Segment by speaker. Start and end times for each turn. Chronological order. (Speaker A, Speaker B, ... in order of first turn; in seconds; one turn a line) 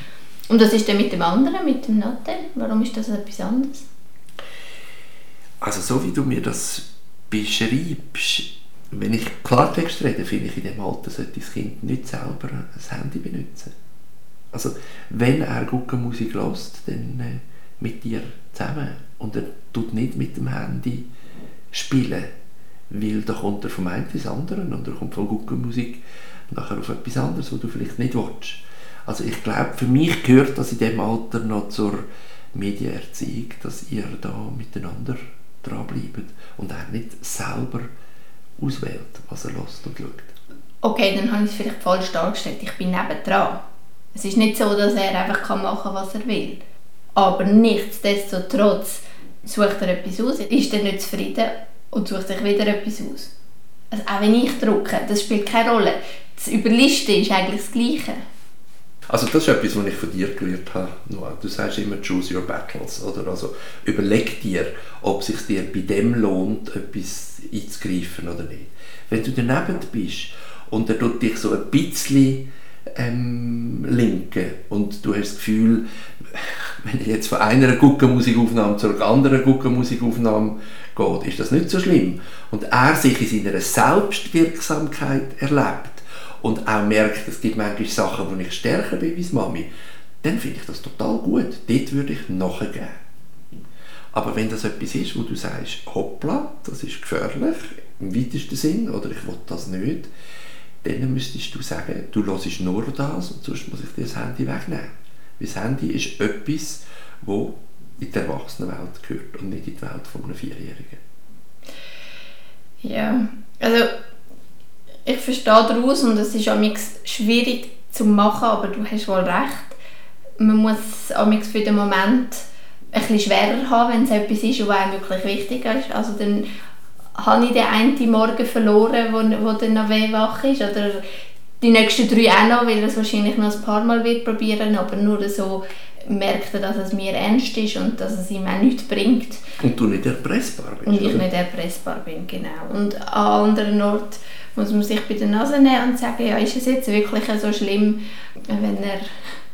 Speaker A: 0.5-3.9
Speaker B: 5.6-13.7
Speaker B: 14.5-21.1
Speaker B: 21.7-22.3
Speaker B: 22.9-37.9
Speaker B: 38.6-40.3
Speaker A: 40.8-43.6
Speaker A: 44.1-46.6
Speaker A: 47.2-53.3
Speaker A: 53.9-58.2
Speaker B: 59.1-72.4
Speaker B: 73.0-89.7
Speaker B: 90.2-93.0
Speaker B: 94.1-100.1
Speaker B: 100.8-111.0
Speaker A: 112.8-113.9
Speaker A: 115.1-119.8
Speaker A: 120.4-126.5
Speaker A: 127.2-131.0
Speaker A: 131.6-139.4
Speaker B: 139.6-141.3
Speaker A: 140.9-149.1